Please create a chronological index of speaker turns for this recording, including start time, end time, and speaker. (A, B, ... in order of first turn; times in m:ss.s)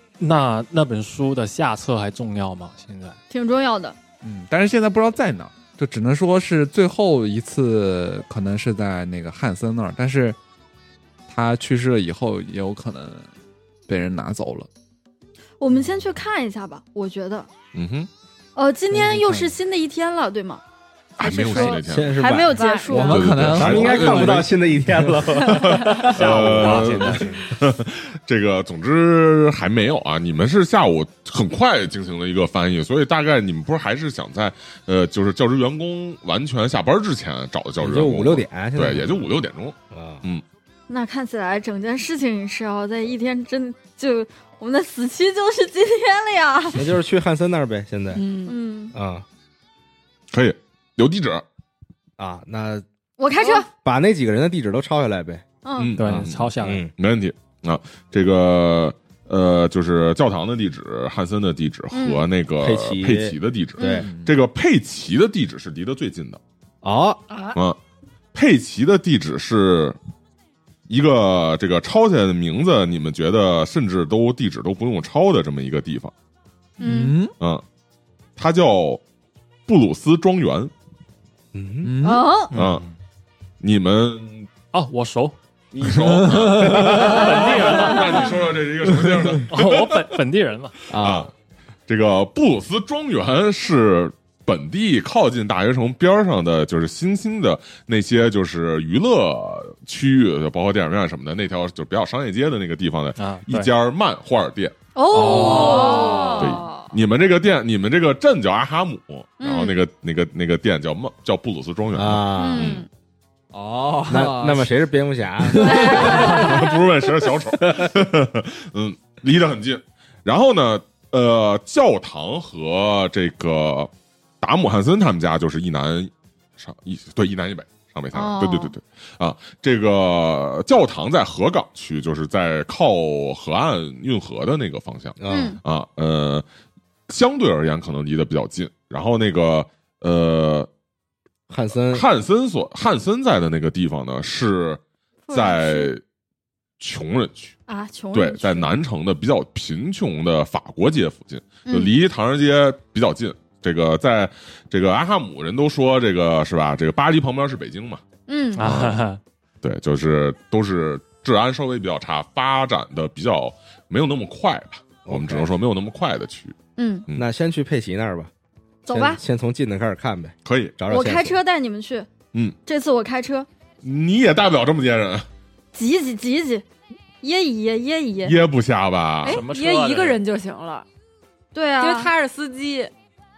0:00.2-0:03.2 A
0:03.3-0:04.0 B
0:04.2-0:10.4 C
0:11.3-0:13.3 C
0:13.9-0:14.7 C
0:15.6-0:17.5 B
0:17.7-0:18.1 D
0:18.6-0:20.6 B
0:19.0-0:19.4 C
0:21.2-0:22.2 D
0:21.2-0:23.2 B
0:21.8-0:22.5 E
0:22.5-0:23.1 F
0:22.9-0:25.2 C
0:23.0-0:24.5 D
0:23.4-0:27.2 E
0:25.3-0:40.4 D
0:26.1-0:27.4 A
0:26.6-0:27.2 C
0:37.8-0:39.2 E
0:39.9-0:40.2 E
0:40.9-0:46.8 B
0:46.7-0:48.2 E
0:48.1-0:48.5 F
0:48.4-0:48.9 B
0:48.9-0:49.2 E
0:50.3-0:51.4 D
0:52.2-0:52.8 E
0:53.2-0:53.7 B
0:53.7-0:55.4 E
0:55.6-0:55.9 B
0:55.8-1:06.4 D
0:56.0-0:56.9 A
0:56.0-0:56.9 E
1:01.9-1:02.2 B
1:02.6-1:04.1 E
1:03.8-1:04.1 B
1:04.0-1:04.3 C
1:06.8-1:07.2 E
1:08.3-1:10.0 D
1:10.9-1:16.1 D
1:16.8-1:17.2 B
1:16.8-1:17.3 C
1:18.4-1:19.0 D
1:19.7-1:20.7 D
1:21.5-1:21.9 E
1:21.8-1:22.4 C
1:22.0-1:22.5 B
1:22.5-1:22.9 A
1:22.5-1:22.8 D
1:23.6-1:24.5 D
1:24.7-1:25.4 A
1:25.7-1:30.0 D
1:26.0-1:27.3 C
1:26.8-1:28.4 A
1:29.5-1:30.8 A
1:30.9-1:31.3 E
1:30.9-1:31.3 D
1:31.9-1:44.8 D
1:43.2-1:43.7 A
1:45.0-1:46.7 B
1:45.1-1:46.0 C
1:45.1-1:46.9 F
1:46.4-1:52.8 D
1:49.4-1:49.7 B
1:52.0-1:52.8 E
1:52.4-1:52.9 B
1:53.5-1:54.7 C
1:54.1-1:56.4 E
1:55.5-1:56.2 C
1:55.6-1:56.6 B
1:55.9-2:16.4 D
1:57.6-1:57.9 E
2:08.1-2:08.7 B
2:15.2-2:15.6 E
2:15.3-2:15.6 B
2:17.1-2:20.7 D
2:21.5-2:22.0 E
2:21.9-2:26.0 D
2:25.3-2:25.9 B
2:26.8-2:27.5 D
2:27.7-2:28.7 B
2:28.1-2:38.0 D
2:31.6-2:31.9 B
2:38.3-2:38.7 B
2:38.5-2:39.2 A
2:38.6-2:39.0 D
2:39.6-2:46.6 D
2:45.1-2:45.5 E
2:46.8-2:47.0 B
2:47.2-2:48.3 E
2:48.8-2:49.2 B
2:48.9-2:51.4 E
2:50.4-2:50.7 D
2:50.9-2:52.1 B
2:52.6-2:53.5 B
2:53.8-2:55.2 D
2:55.7-2:56.6 B
2:57.2-2:58.4 B
2:58.2-2:59.4 D
2:59.2-3:00.8 F
2:59.2-3:00.2 A
3:01.5-3:02.1 B
3:01.8-3:02.9 F